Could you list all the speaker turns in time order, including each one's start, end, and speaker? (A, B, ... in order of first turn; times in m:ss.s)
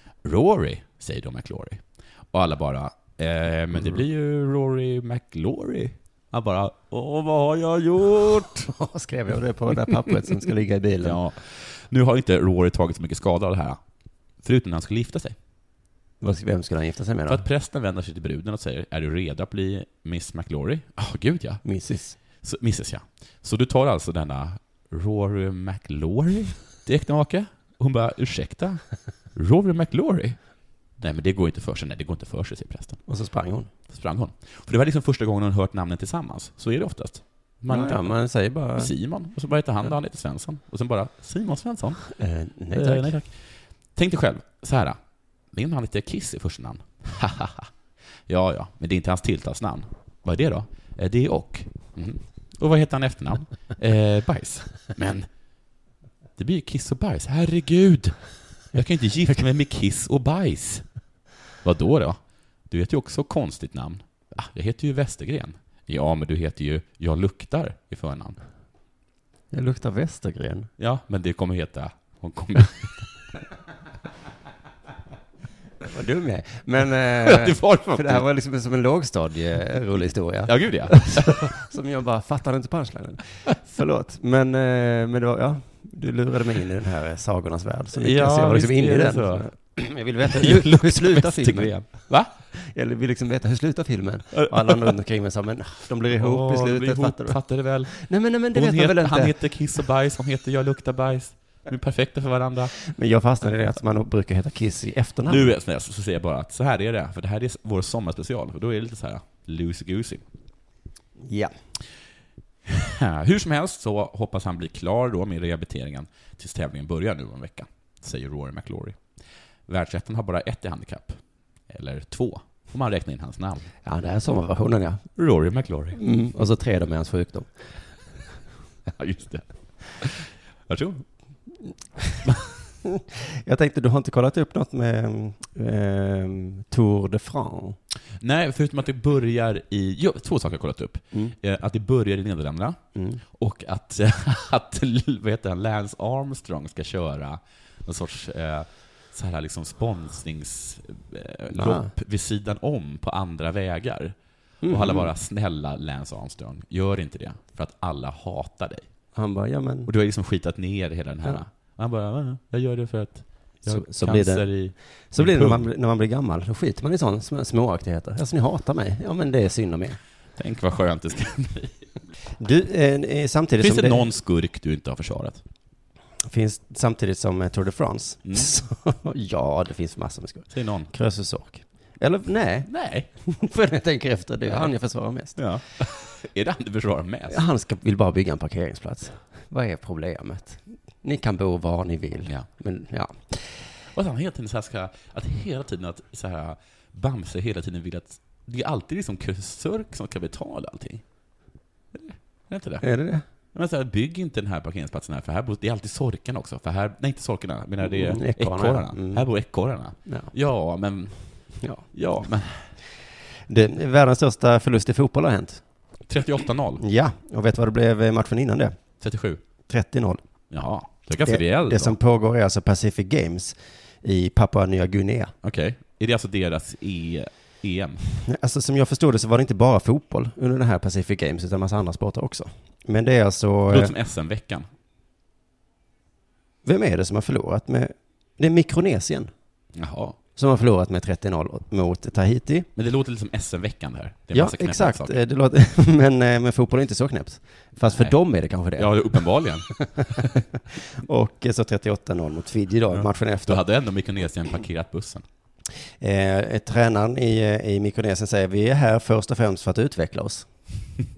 0:00.2-0:08.7 A
0:08.7-0:11.2 B
0:11.0-0:13.8 A
0:14.4-0:15.4 A
0:16.2-0:17.4 B
0:17.3-0:21.6 A
0:21.6-0:22.2 B
0:22.4-0:28.8 A
0:29.3-0:30.4 A
0:31.0-0:33.0 A
0:33.1-0:33.7 B
0:33.9-0:38.1 A
0:37.7-0:38.9 B
0:38.8-0:42.0 A
0:42.1-0:43.1 B
0:42.7-0:47.7 A
0:48.3-0:55.3 A
0:56.4-1:00.9 A
1:01.6-1:08.4 A
1:09.5-1:10.7 B
1:10.8-1:13.1 A
1:15.8-1:39.5 B
1:17.2-1:18.2 A
1:20.4-1:21.5 A
1:27.9-1:29.5 A
1:30.2-1:32.3 A
1:34.3-1:34.9 A
1:36.1-1:42.8 A
1:42.9-1:45.5 B
1:45.3-1:50.2 A
1:51.2-1:51.5 B
1:52.6-1:59.0 A
1:59.7-2:03.7 A
2:03.8-2:05.0 B
2:05.2-2:06.0 A
2:05.9-2:07.9 B
2:08.8-2:11.0 A
2:12.8-2:17.8 B
2:18.2-2:34.2 A
2:22.9-2:23.2 B
2:31.5-2:31.9 B
2:34.6-2:35.1 B
2:34.7-2:38.9 A
2:39.1-2:39.9 B
2:39.8-2:45.6 A
2:43.6-2:50.0 B
2:50.4-2:51.8 A
2:52.4-2:54.1 B
2:53.6-2:55.4 A
2:56.3-3:02.7 B
2:58.2-2:58.5 A
3:00.5-3:00.9 A
3:02.7-3:03.1 A
3:03.2-3:05.4 B
3:04.5-3:04.7 A
3:05.3-3:07.4 A
3:07.3-3:13.7 B
3:13.9-3:21.0 A
3:21.9-3:22.8 A
3:22.8-3:23.2 B
3:23.5-3:32.7 A
3:27.8-3:29.2 B
3:30.0-3:30.3 B
3:31.6-3:31.8 B
3:33.5-3:35.6 B
3:36.1-3:36.8 A
3:36.8-3:38.8 B
3:39.0-3:39.4 A
3:39.7-3:40.2 B
3:40.5-3:42.0 A
3:41.2-3:45.3 B
3:45.4-3:48.0 A
3:48.2-3:53.9 B
3:53.7-3:54.7 A
3:56.6-3:59.3 B
3:59.7-4:00.2 A
4:00.4-4:02.7 B
4:02.7-4:05.2 A
4:04.3-4:10.2 B
4:08.8-4:10.3 A
4:10.8-4:13.6 B
4:12.9-4:15.2 A
4:16.0-4:20.5 B